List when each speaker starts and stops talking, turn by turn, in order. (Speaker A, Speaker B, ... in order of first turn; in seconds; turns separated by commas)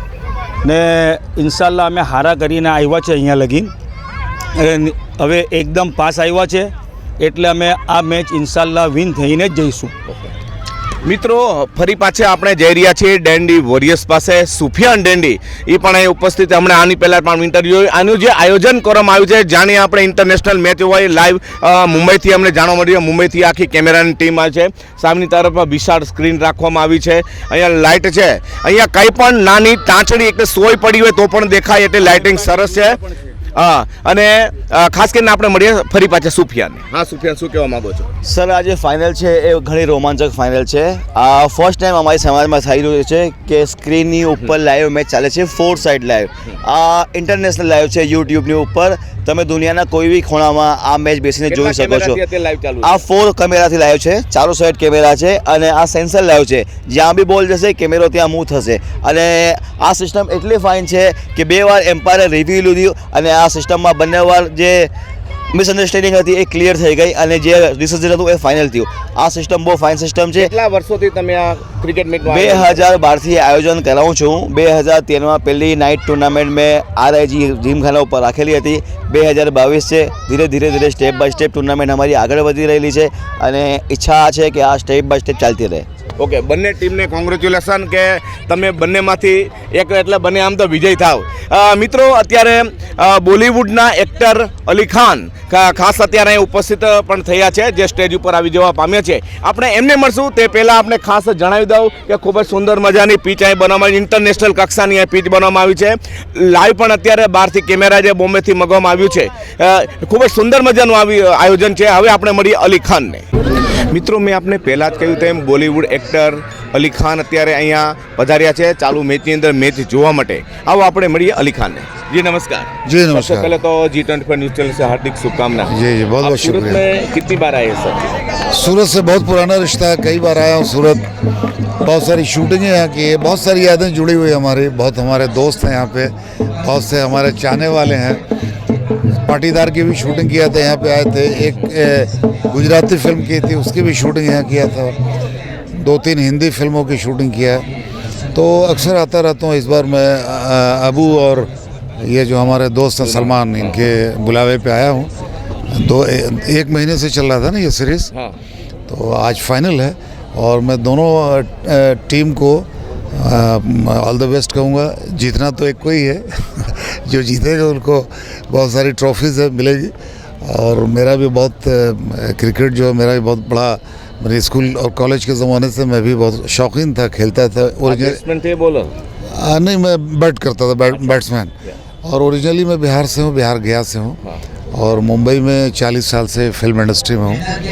Speaker A: 0.6-3.7, Speaker A: 4.6-9.9, Speaker B: 11.1-33.0, Speaker B: 33.5-38.1, Speaker C: 38.2-52.2, Speaker B: 51.5-53.0, Speaker C: 52.8-64.9, Speaker C: 65.5-70.5, Speaker B: 70.4-72.8, Speaker C: 72.2-85.8, Speaker B: 86.2-113.2, Speaker B: 113.9-125.6, Speaker D: 122.8-123.5, Speaker D: 125.6-126.8, Speaker B: 126.2-127.9, Speaker D: 128.5-131.1, Speaker D: 131.8-138.2, Speaker D: 139.2-145.0, Speaker D: 145.7-147.7, Speaker D: 148.3-155.1, Speaker D: 155.7-158.1, Speaker D: 158.9-178.2, Speaker B: 178.1-178.9, Speaker D: 179.3-181.5, Speaker D: 182.0-184.2, Speaker D: 184.7-187.4